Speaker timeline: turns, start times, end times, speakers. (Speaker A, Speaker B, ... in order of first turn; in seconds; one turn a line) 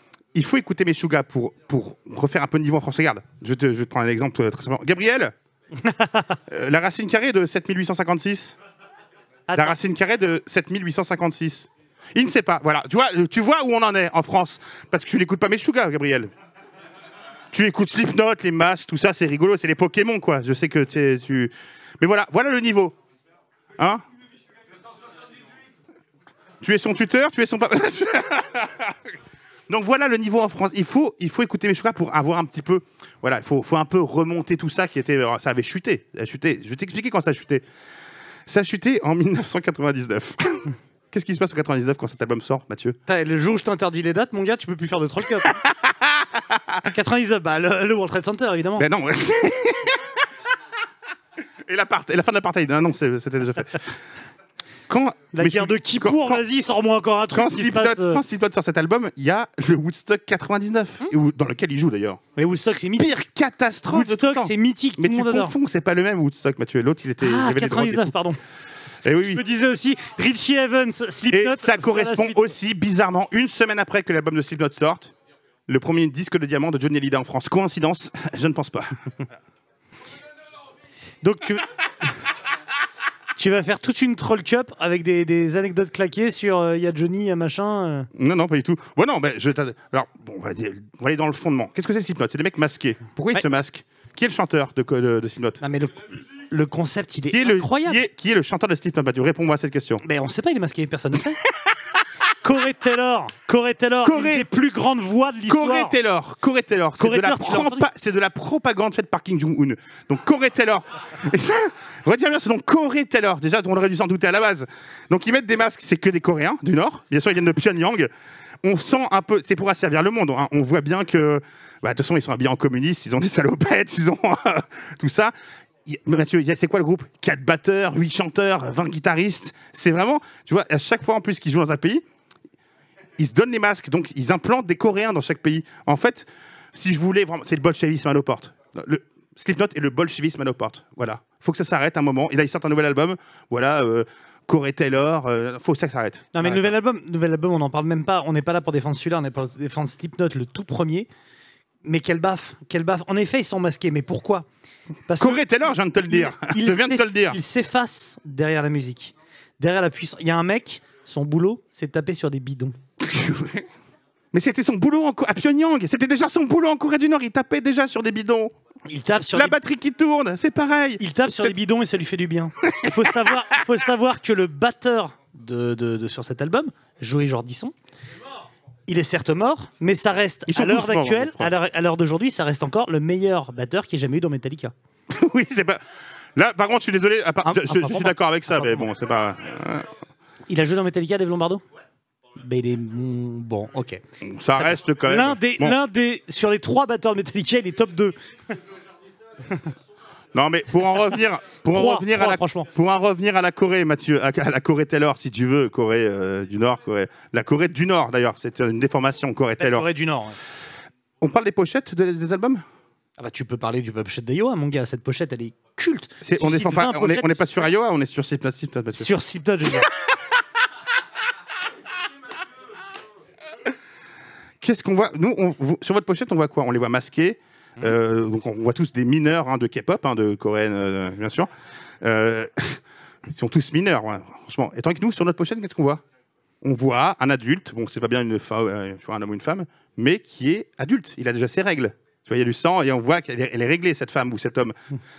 Speaker A: 0.3-5.3
Speaker B: 5.8-6.2
Speaker A: 6.5-8.6
Speaker B: 9.5-9.8
Speaker A: 9.6-16.3
Speaker A: 17.5-23.0
Speaker A: 26.6-28.9
Speaker A: 29.7-37.6
Speaker A: 38.5-43.0
Speaker B: 43.1-45.5
Speaker A: 45.5-46.8
Speaker B: 46.9-48.9
Speaker A: 48.8-50.2
Speaker A: 51.6-53.9
Speaker A: 54.9-56.4
Speaker B: 55.3-58.2
Speaker A: 57.3-62.2
Speaker B: 62.4-63.2
Speaker A: 63.0-68.1
Speaker B: 63.9-65.5
Speaker B: 67.2-68.4
Speaker A: 69.0-69.4
Speaker B: 69.1-72.5
Speaker A: 71.3-75.1
Speaker A: 75.7-78.9
Speaker B: 81.2-81.7
Speaker B: 83.4-88.1
Speaker A: 88.2-95.6
Speaker B: 95.6-98.0
Speaker A: 97.3-100.0
Speaker B: 100.0-101.4
Speaker B: 102.4-106.0
Speaker A: 104.0-104.5
Speaker A: 105.5-118.1
Speaker B: 107.0-107.9
Speaker A: 118.6-125.3
Speaker A: 125.9-132.0
Speaker A: 133.2-146.7
Speaker B: 146.3-151.1
Speaker B: 151.8-154.4
Speaker B: 155.1-162.8
Speaker A: 155.2-157.4
Speaker A: 163.0-163.7
Speaker A: 164.3-168.5
Speaker B: 168.9-169.6
Speaker A: 169.3-171.6
Speaker B: 171.0-177.7
Speaker B: 178.9-184.7
Speaker A: 180.5-181.5
Speaker A: 185.1-185.8
Speaker A: 186.4-189.9
Speaker B: 187.4-188.9
Speaker B: 190.5-191.6
Speaker B: 192.4-194.0
Speaker A: 194.2-195.8
Speaker B: 194.6-198.1
Speaker A: 200.3-209.9
Speaker B: 201.7-202.7
Speaker B: 209.6-210.4
Speaker A: 211.2-212.6
Speaker B: 213.2-217.7
Speaker A: 216.2-219.1
Speaker B: 219.0-219.9
Speaker A: 224.6-231.5
Speaker A: 232.0-236.0
Speaker A: 236.6-244.8